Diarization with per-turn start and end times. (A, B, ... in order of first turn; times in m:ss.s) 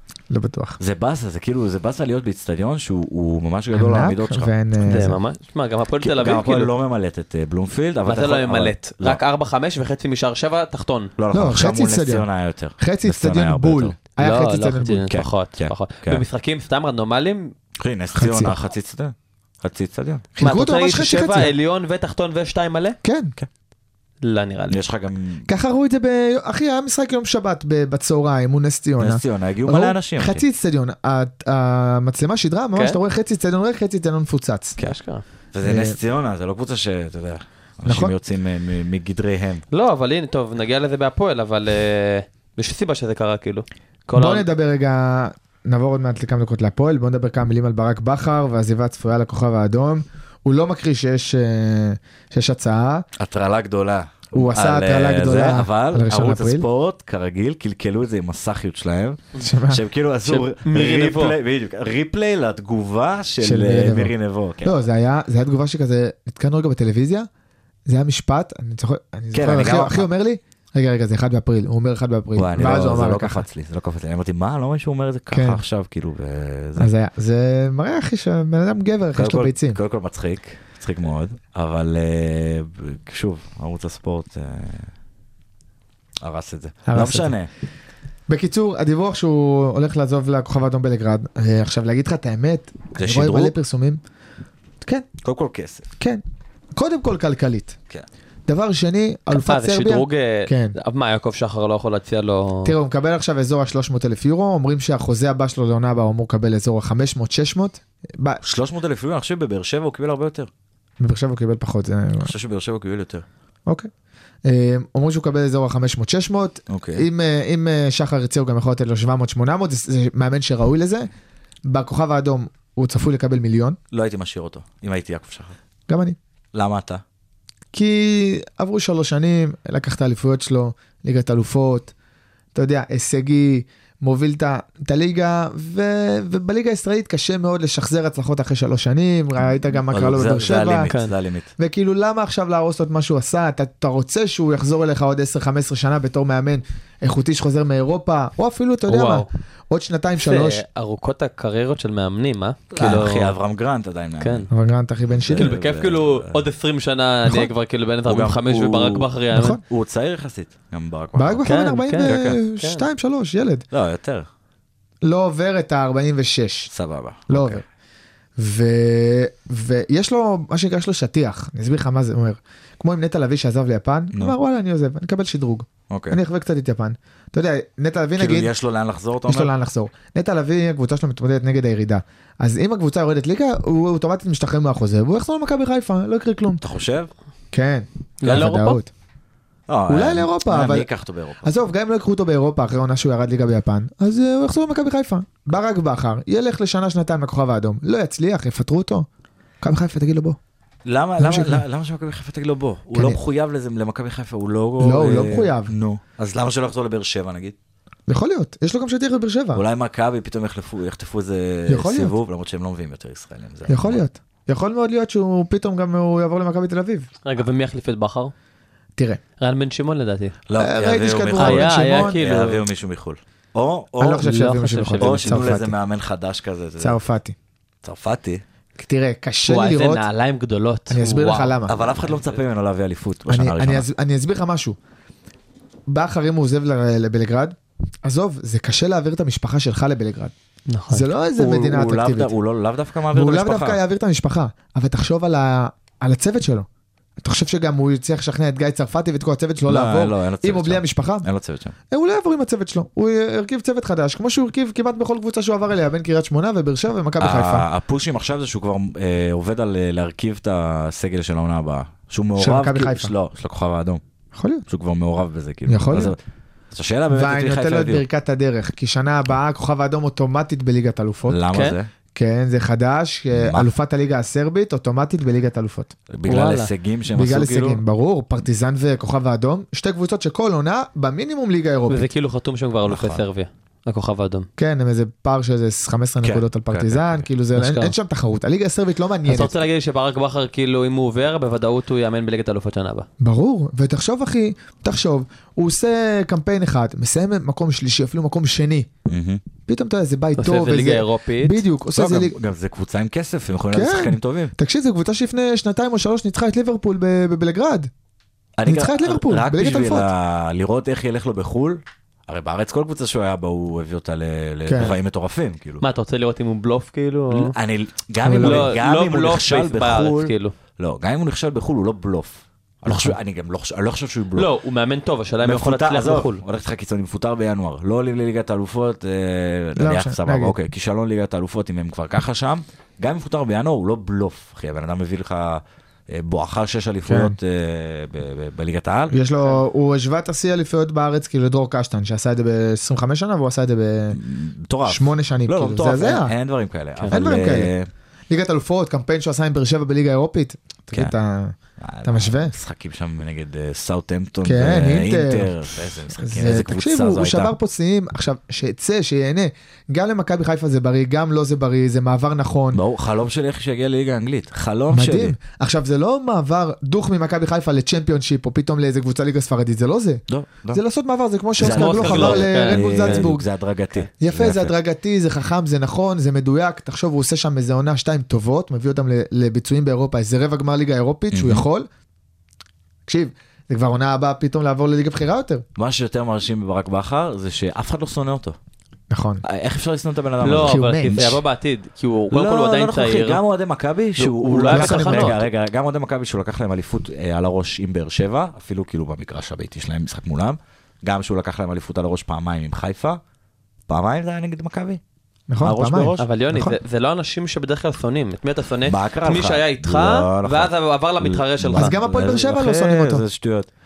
0:00.3-0:00.8 A
0:00.8-0:04.5 B
0:03.7-0:05.2 A
0:04.8-0:06.7 C
0:06.0-0:09.2 B
0:08.1-0:11.1 C
0:11.2-0:14.0 B
0:11.3-0:12.2 A
0:12.8-0:15.0 A
0:14.2-0:17.5 C
0:15.1-0:16.2 B
0:17.8-0:20.3 B
0:18.2-0:18.6 A
0:20.3-0:21.5 A
0:20.4-0:23.0 C
0:23.0-0:23.3 A
0:24.2-0:24.8 C
0:24.7-0:25.5 B
0:25.5-0:34.8 A
0:29.0-0:30.4 B
0:32.8-0:33.0 C
0:34.8-0:35.2 C
0:35.5-0:39.6 B
0:35.6-0:36.0 A
0:37.8-0:38.1 A
0:39.7-0:44.5 C
0:44.1-0:53.1 A
0:53.2-1:04.8 B
0:54.3-0:56.6 A
0:59.4-0:59.8 A
1:00.2-1:01.4 C
1:03.4-1:07.3 A
1:07.9-1:13.4 A
1:09.3-1:10.1 B
1:12.4-1:16.9 B
1:15.3-1:15.6 A
1:16.8-1:19.8 A
1:19.2-1:24.9 B
1:26.2-1:27.5 B
1:26.9-1:27.3 A
1:28.3-1:34.0 A
1:33.0-1:33.6 B
1:35.2-1:35.9 B
1:36.8-1:37.8 A
1:38.5-1:40.8 A
1:39.3-1:42.7 C
1:42.6-1:48.4 A
1:48.4-1:50.5 B
1:51.0-1:52.3 A
1:52.2-1:53.2 B
1:54.4-2:01.1 A
1:56.7-1:57.1 B
2:01.6-2:03.8 A
2:03.9-2:05.6 B
2:05.9-2:06.2 A
2:06.5-2:07.0 B
2:07.7-2:11.9 A
2:12.5-2:20.9 A
2:19.9-2:21.5 B
2:21.6-2:30.6 A
2:28.9-2:29.3 C
2:30.2-2:33.4 C
2:32.7-2:34.5 B
2:34.2-2:34.5 C
2:34.5-2:35.5 A
2:35.1-2:36.4 B
2:35.4-2:39.6 C
2:38.1-2:39.1 B
2:39.3-2:39.6 A
2:39.6-2:41.5 B
2:41.2-2:43.6 A
2:41.4-2:42.9 C
2:42.0-2:42.4 B
2:43.7-2:44.3 B
2:45.0-2:46.7 A
2:46.7-2:47.6 B
2:47.3-2:47.6 A
2:48.4-2:58.5 A
2:55.9-2:56.2 B
2:58.2-2:59.5 B
2:59.3-3:06.6 A
3:06.6-3:07.1 B
3:07.5-3:08.9 A
3:08.2-3:08.8 C
3:09.7-3:11.5 B
3:09.9-3:10.9 A
3:11.4-3:19.1 A
3:19.6-3:20.4 A
3:20.8-3:27.6 B
3:21.2-3:21.6 A
3:22.9-3:23.2 A
3:24.8-3:25.7 A
3:28.1-3:29.6 A
3:29.5-3:34.0 B
3:31.7-3:32.1 A
3:33.7-3:37.1 A
3:37.2-3:38.3 C
3:39.4-3:40.4 C
3:40.5-3:44.3 B
3:40.6-3:42.2 A
3:41.4-3:42.6 C
3:44.0-3:45.8 A
3:44.2-3:45.5 C
3:45.0-3:47.0 B
3:46.8-3:47.4 A
3:47.8-3:48.4 B
3:48.8-3:50.1 A
3:49.4-3:52.2 C
3:50.9-3:51.8 A
3:51.6-3:53.9 B
3:53.3-3:54.8 A
3:55.9-4:00.3 A
4:00.7-4:01.1 C
4:00.9-4:02.4 A
4:01.4-4:03.8 B
4:03.1-4:06.7 A
4:07.2-4:11.3 A
4:09.7-4:11.8 B
4:11.9-4:17.7 A
4:17.2-4:24.0 B
4:22.4-4:23.1 A
4:24.3-4:24.6 A
4:24.7-4:26.2 B
4:25.7-4:26.1 A
4:26.7-4:28.0 B
4:27.1-4:31.4 A
4:31.3-4:31.9 B
4:31.5-4:31.8 C
4:32.1-4:35.9 A
4:33.4-4:33.7 B
4:36.1-4:37.8 B
4:36.3-4:36.7 C
4:37.1-4:42.1 A
4:41.9-4:44.5 C
4:42.9-4:43.2 B
4:44.6-4:49.6 A
4:46.2-4:47.3 B
4:47.6-4:47.9 C
4:49.3-4:53.1 C
4:53.2-4:58.9 A
4:59.1-4:59.4 B
4:59.6-5:02.4 A
5:00.4-5:01.6 C
5:01.9-5:04.5 B
5:03.7-5:07.9 A
5:08.6-5:15.8 B
5:08.6-5:10.1 A
5:14.7-5:15.0 A
5:15.8-5:17.6 C
5:17.3-5:24.5 B
5:18.2-5:18.8 A
5:18.4-5:20.5 C
5:22.9-5:23.1 C
5:24.4-5:26.4 C
5:25.4-5:39.2 B
5:29.8-5:30.6 A
5:37.1-5:37.4 A
5:39.1-5:44.2 A
5:44.1-5:47.9 B
5:44.9-5:46.3 A
5:47.1-5:47.7 A
5:48.3-5:52.5 A
5:51.8-5:57.5 B
5:54.4-5:55.5 A
5:56.2-6:02.8 A
6:02.7-6:05.4 B
6:04.9-6:13.4 A
6:10.3-6:10.8 B
6:11.6-6:14.7 B
6:11.6-6:13.3 C
6:14.2-6:21.9 A
6:21.3-6:21.6 B
6:23.1-6:25.6 A
6:25.8-6:28.6 B
6:29.1-6:29.4 A
6:29.4-6:31.3 B
6:30.4-6:33.4 C
6:30.5-6:31.4 A
6:32.3-6:43.2 B
6:34.2-6:35.5 C
6:34.7-6:35.4 A
6:43.9-6:45.0 B
6:45.5-6:46.8 A
6:45.6-6:46.3 B
6:46.2-6:51.9 C
6:48.9-6:53.7 B
6:51.8-6:53.2 A